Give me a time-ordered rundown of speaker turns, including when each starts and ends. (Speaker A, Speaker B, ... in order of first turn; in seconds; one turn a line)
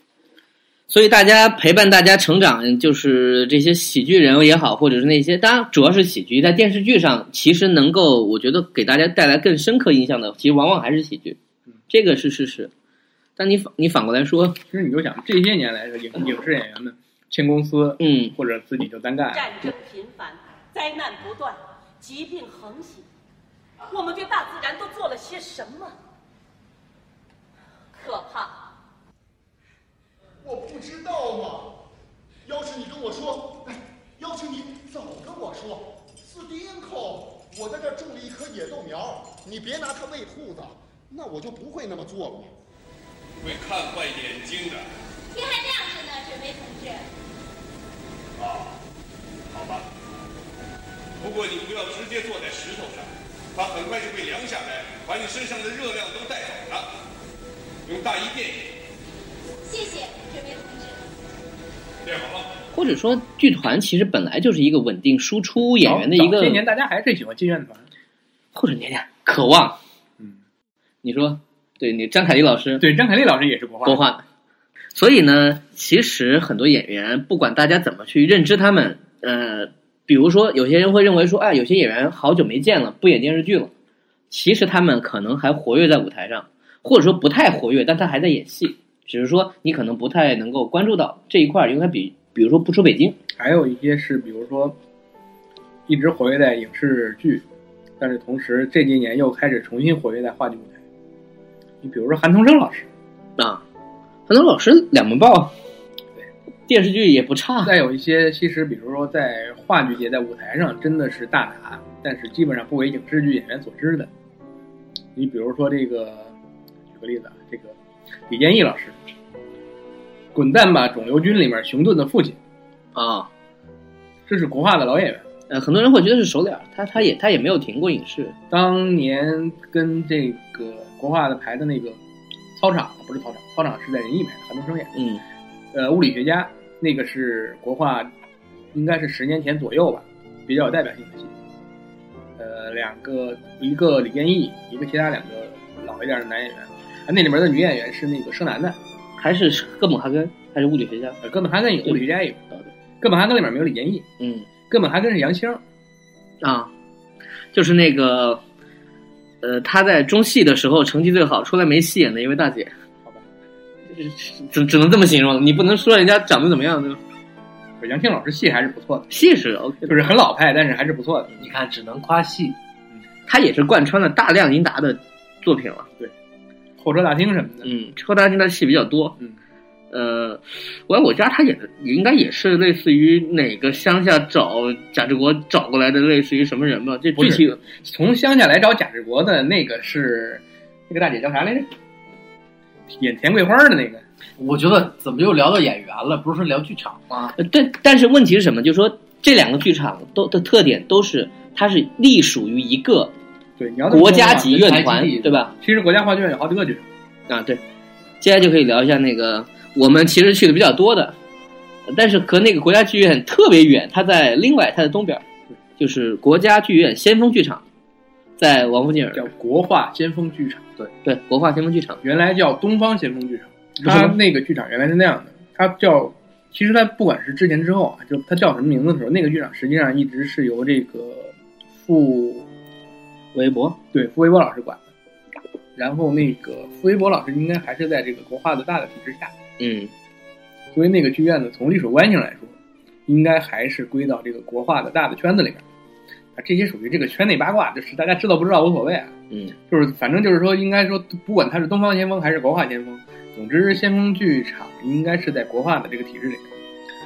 Speaker A: 0.9-11.4
Speaker A: 11.9-12.7
Speaker A: 13.4-14.6
Speaker B: 14.7-19.6
Speaker A: 18.0-18.4
Speaker C: 19.3-23.1
Speaker C: 23.8-25.9
Speaker C: 27.9-28.6
Speaker D: 30.4-31.8
Speaker D: 32.5-42.5
Speaker E: 43.4-44.9
Speaker F: 45.3-47.1
Speaker E: 48.4-48.8
Speaker E: 49.5-49.9
Speaker E: 51.2-56.9
Speaker E: 57.9-58.8
Speaker F: 59.6-61.0
Speaker E: 62.0-62.5
Speaker A: 62.7-66.6
Speaker B: 65.7-67.9
Speaker A: 68.5-69.8
Speaker A: 71.0-72.9
Speaker B: 72.8-74.0
Speaker A: 73.8-74.2
Speaker A: 74.9-83.7
Speaker A: 84.3-93.2
Speaker B: 93.4-94.8
Speaker B: 95.9-97.4
Speaker B: 98.0-100.8
Speaker B: 101.8-102.9
Speaker A: 103.4-103.6
Speaker A: 104.3-105.5
Speaker A: 106.7-107.8
Speaker B: 107.6-114.1
Speaker B: 115.2-116.3
Speaker B: 116.9-117.8
Speaker B: 118.3-119.0
Speaker B: 120.3-122.4
Speaker A: 123.0-123.3
Speaker B: 124.3-125.2
Speaker A: 125.5-128.4
Speaker B: 128.5-132.0
Speaker B: 132.6-134.9
Speaker A: 134.9-135.2
Speaker B: 135.7-138.1
Speaker B: 138.7-141.3
Speaker B: 142.4-148.8
Speaker A: 149.2-151.2
Speaker B: 151.2-152.4
Speaker B: 153.0-154.1
Speaker A: 154.2-154.5
Speaker B: 154.7-155.6
Speaker A: 156.4-156.7
Speaker A: 157.5-158.4
Speaker A: 159.4-162.7
Speaker A: 163.9-167.0
Speaker B: 167.8-169.1
Speaker A: 169.1-170.1
Speaker B: 169.9-171.3
Speaker G: 171.4-172.6
Speaker A: 173.3-175.9
Speaker B: 176.8-177.7
Speaker A: 177.6-179.2
Speaker A: 179.9-187.6
Speaker B: 187.2-191.7
Speaker B: 192.9-194.0
Speaker G: 194.4-197.3
Speaker A: 197.4-203.1
Speaker B: 203.6-204.7
Speaker A: 203.9-205.5
Speaker G: 204.4-205.5
Speaker B: 205.6-206.9
Speaker A: 207.3-207.6
Speaker A: 208.2-211.2
Speaker A: 211.9-215.2
Speaker A: 215.8-217.6
Speaker A: 218.4-219.3
Speaker B: 219.1-220.9
Speaker A: 221.0-222.0
Speaker B: 222.0-232.5
Speaker A: 223.8-224.2
Speaker A: 233.3-233.8
Speaker B: 233.9-234.8
Speaker B: 235.8-239.3
Speaker A: 239.6-239.9
Speaker B: 240.7-242.6
Speaker B: 243.1-245.6
Speaker B: 246.4-249.1
Speaker B: 249.7-256.5